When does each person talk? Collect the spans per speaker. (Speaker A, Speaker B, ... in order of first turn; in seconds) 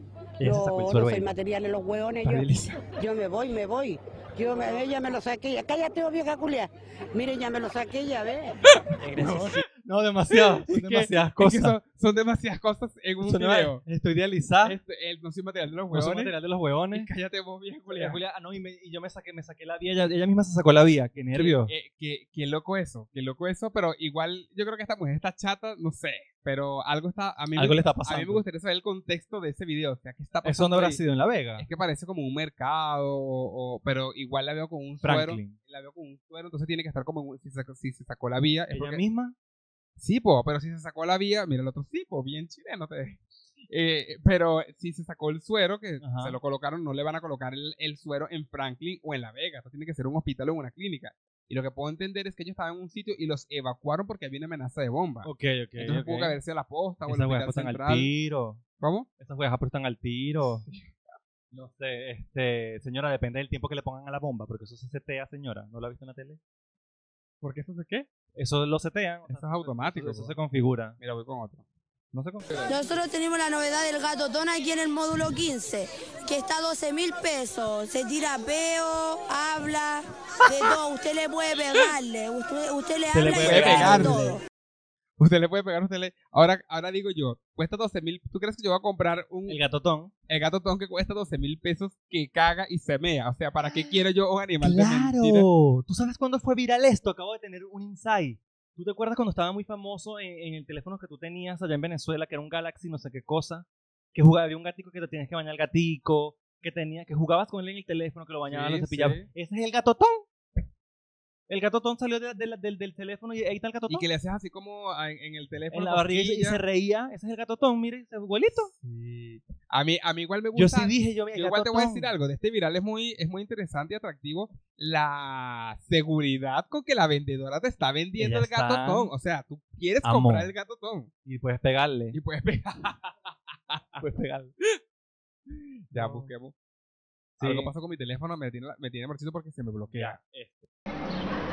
Speaker A: 0.4-1.3, 9.0-11.8, 13.2-14.8, 15.9-17.1, 17.9-21.7, 27.5-28.4, 30.4-31.7, 35.0-35.6, 38.7-39.3, 46.0-46.4, 55.2-56.4, 57.0-58.6, 59.2-60.6, 61.5-66.4, 68.3-71.0, 72.1-72.5, 83.1-84.3, 89.5-90.1, 93.7-93.9, 94.6-110.2, 111.5-114.0, 115.7-118.7, 120.5-122.1, 128.2-129.1, 130.0-130.5, 131.2-132.2, 134.0-134.5, 135.9-136.3, 137.4-137.7, 139.9-140.7
Speaker B: 0.4-2.5, 3.0-8.5
Speaker C: 2.2-2.8, 8.8-9.6, 10.3-13.8, 14.6-16.3, 16.9-18.2, 21.3-31.0, 31.6-39.0, 40.0-58.1, 58.8-59.1, 60.4-60.9, 67.4-68.1, 69.3-70.4, 71.0-71.6, 83.4-84.3, 85.2-89.6, 90.3-95.5, 108.5-109.3, 113.9-116.6, 118.7-131.1, 132.1-134.1, 135.9-136.5, 137.4-140.2
Speaker D: 72.7-84.4